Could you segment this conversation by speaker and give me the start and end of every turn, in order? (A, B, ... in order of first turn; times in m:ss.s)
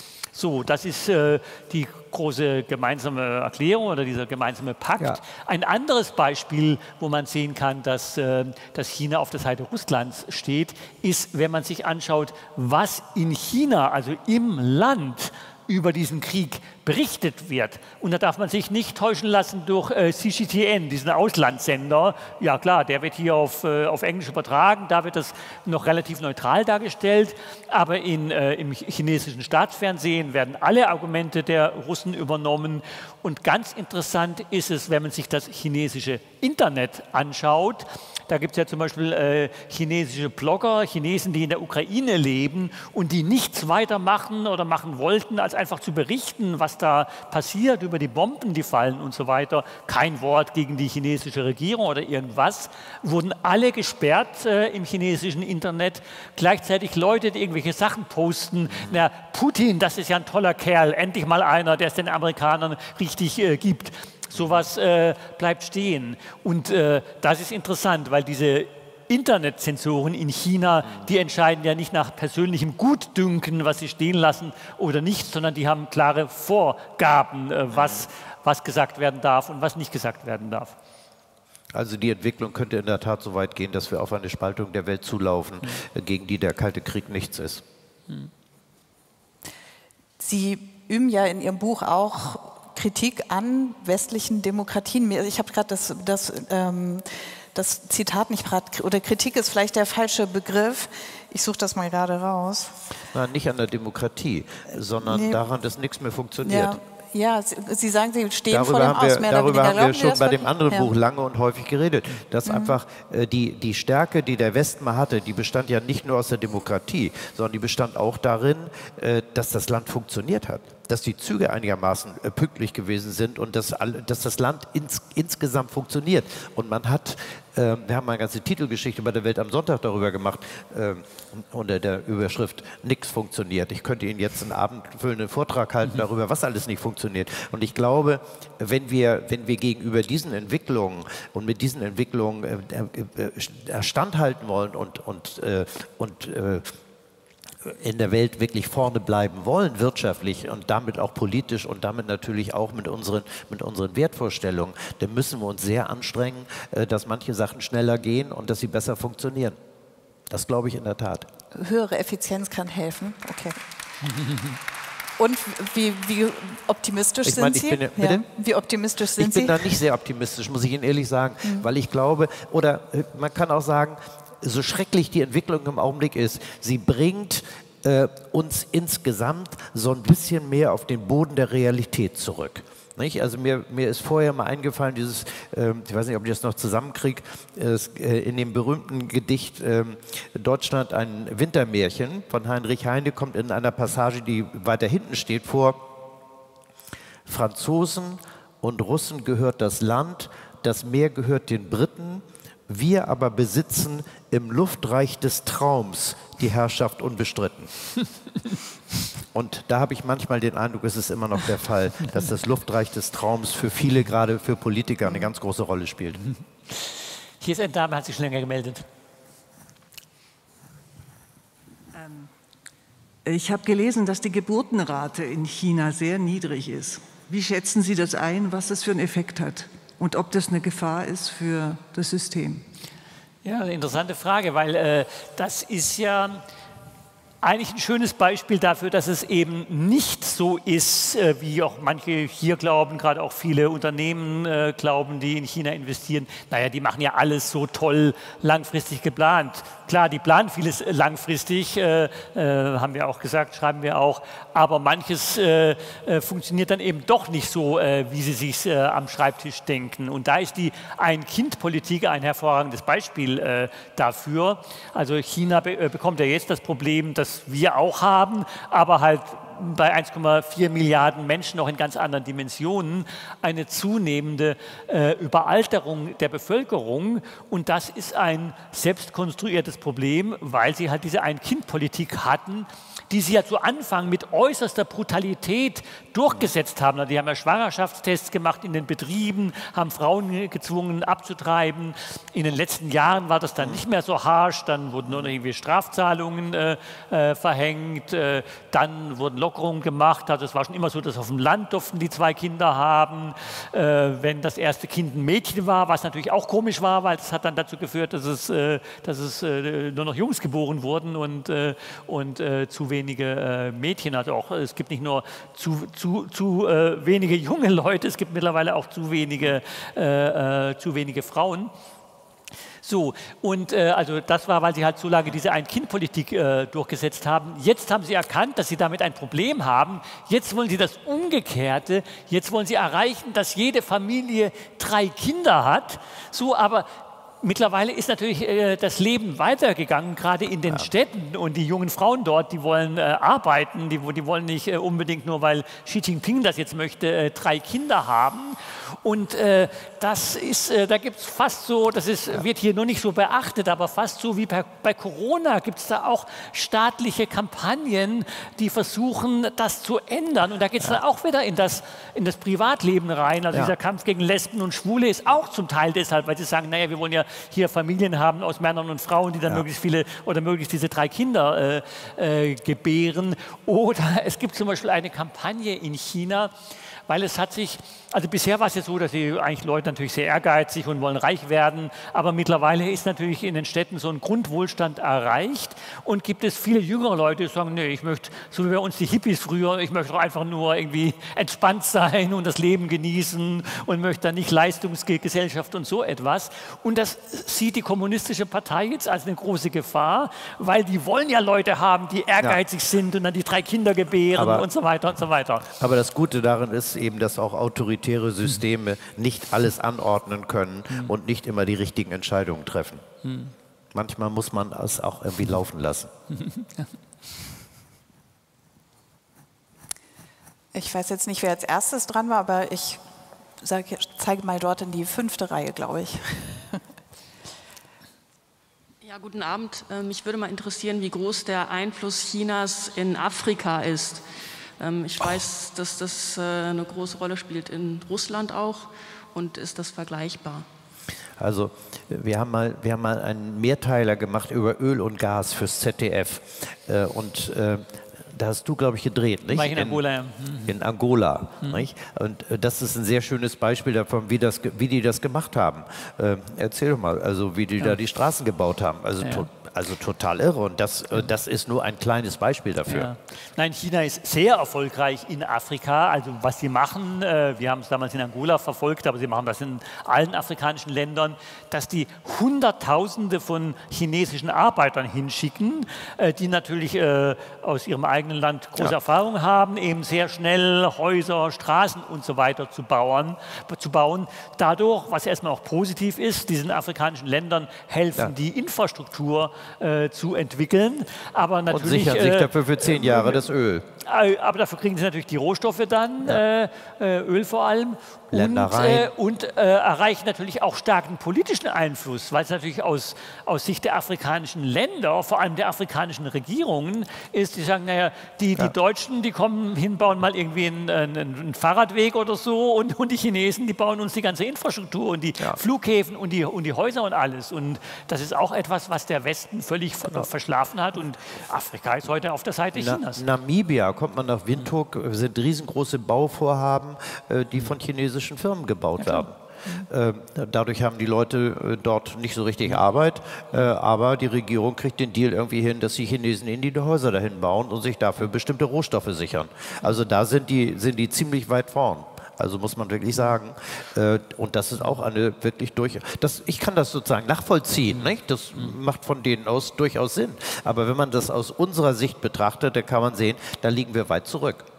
0:00.3-1:20.7 A
0:58.7-0:59.0 B
1:04.4-1:04.6 B
1:17.7-1:18.0 B
1:21.7-1:27.6 B
1:30.2-1:42.8 C
1:43.1-1:46.8 B
1:45.0-1:45.4 C
1:46.4-1:50.9 C
1:48.5-2:26.7 B
1:52.5-1:52.8 C
2:27.6-2:39.6 B
2:40.3-2:41.3 B
2:41.5-2:43.6 C
2:45.2-2:49.8 C
2:47.2-2:48.3 B
2:49.2-3:15.8 B
3:17.3-3:27.7 B
3:29.3-3:36.2 B
3:37.4-3:38.8 A
3:42.0-3:42.3 D
3:43.2-3:52.7 D
3:53.4-3:56.4 A
3:57.4-5:21.7 A
4:55.1-4:55.3 B
5:22.8-5:36.9 A
5:37.4-6:16.5 A
6:17.1-6:45.7 A
6:44.4-6:44.7 B
6:45.7-6:53.0 B
6:53.2-6:53.5 A
6:53.9-6:56.1 B
6:56.4-6:56.9 A
7:00.8-7:03.0 C
7:03.6-7:06.8 C
7:09.0-7:14.2 E
7:14.8-7:20.7 E
7:21.4-7:30.0 B
7:29.5-7:30.8 A
7:30.7-7:43.1 B
7:39.2-7:39.5 A
7:42.9-8:13.4 A
8:11.7-8:13.9 B
8:14.0-8:43.2 A
8:18.3-8:19.1 B
8:42.8-9:14.7 B
8:49.0-8:49.9 A